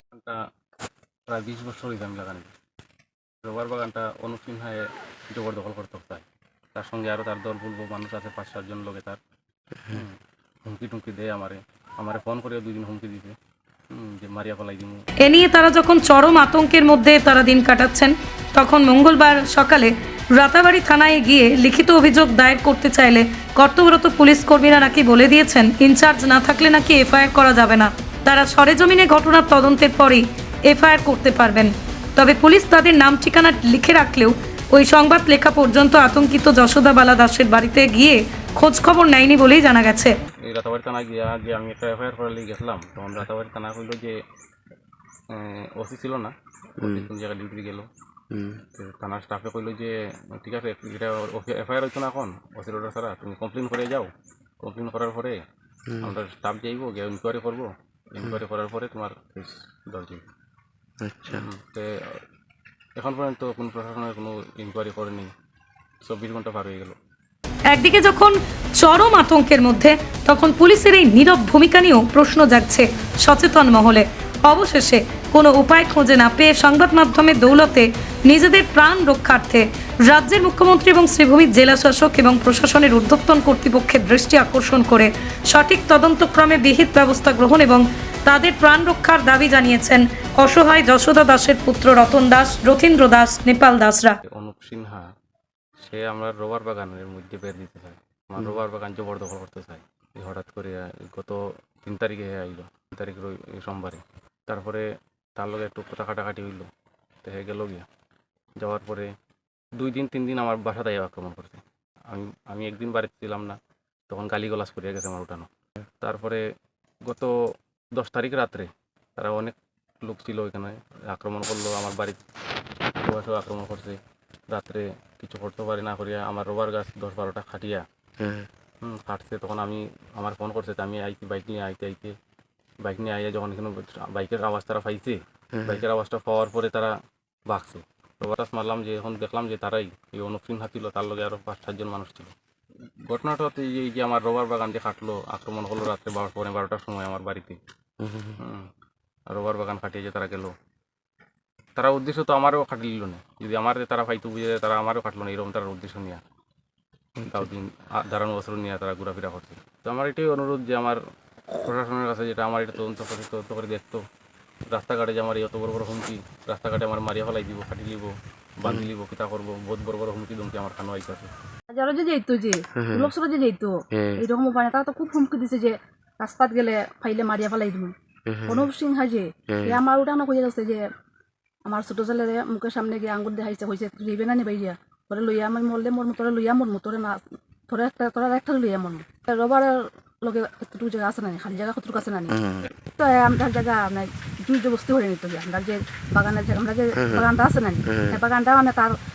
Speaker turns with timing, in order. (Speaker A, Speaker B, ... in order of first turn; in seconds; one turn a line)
Speaker A: 0.1-0.4
Speaker A: 1.3-2.5
Speaker A: 3.4-9.2
Speaker A: 9.9-10.1
Speaker A: 10.7-13.3
Speaker A: 13.9-15.0
Speaker B: 15.2-40.1
Speaker A: 40.4-44.2
Speaker A: 45.3-47.9
Speaker C: 48.3-48.6
Speaker A: 48.7-55.4
Speaker A: 56.0-60.2
Speaker C: 61.0-61.4
Speaker A: 61.3-61.9
Speaker A: 63.0-65.3
Speaker A: 66.0-67.0
Speaker B: 67.7-94.2
Speaker A: 94.3-95.1
Speaker A: 95.8-106.7
Speaker A: 107.2-107.8
Speaker A: 108.6-109.1
Speaker A: 109.8-113.6
Speaker A: 114.1-115.5
Speaker A: 116.0-116.4
Speaker A: 117.1-117.3
Speaker A: 118.0-122.2
Speaker A: 123.0-124.0
Speaker A: 124.5-127.8
Speaker C: 128.2-128.5
Speaker A: 128.8-132.1
Speaker A: 132.8-136.9
Speaker A: 137.5-142.3
Speaker A: 143.1-147.6
Speaker C: 148.0-148.3
Speaker A: 148.4-148.7
Speaker A: 149.3-150.5
Speaker A: 151.8-156.2
Speaker A: 157.2-161.0
Speaker A: 161.6-164.0
Speaker A: 164.7-171.3
Speaker D: 171.7-177.9
Speaker C: 172.8-173.1
Speaker C: 173.9-174.2
Speaker C: 178.3-178.7
Speaker D: 178.4-180.8
Speaker C: 179.5-179.8
Speaker D: 181.7-192.4
Speaker C: 192.4-192.7
Speaker D: 192.9-198.9
Speaker C: 197.9-198.2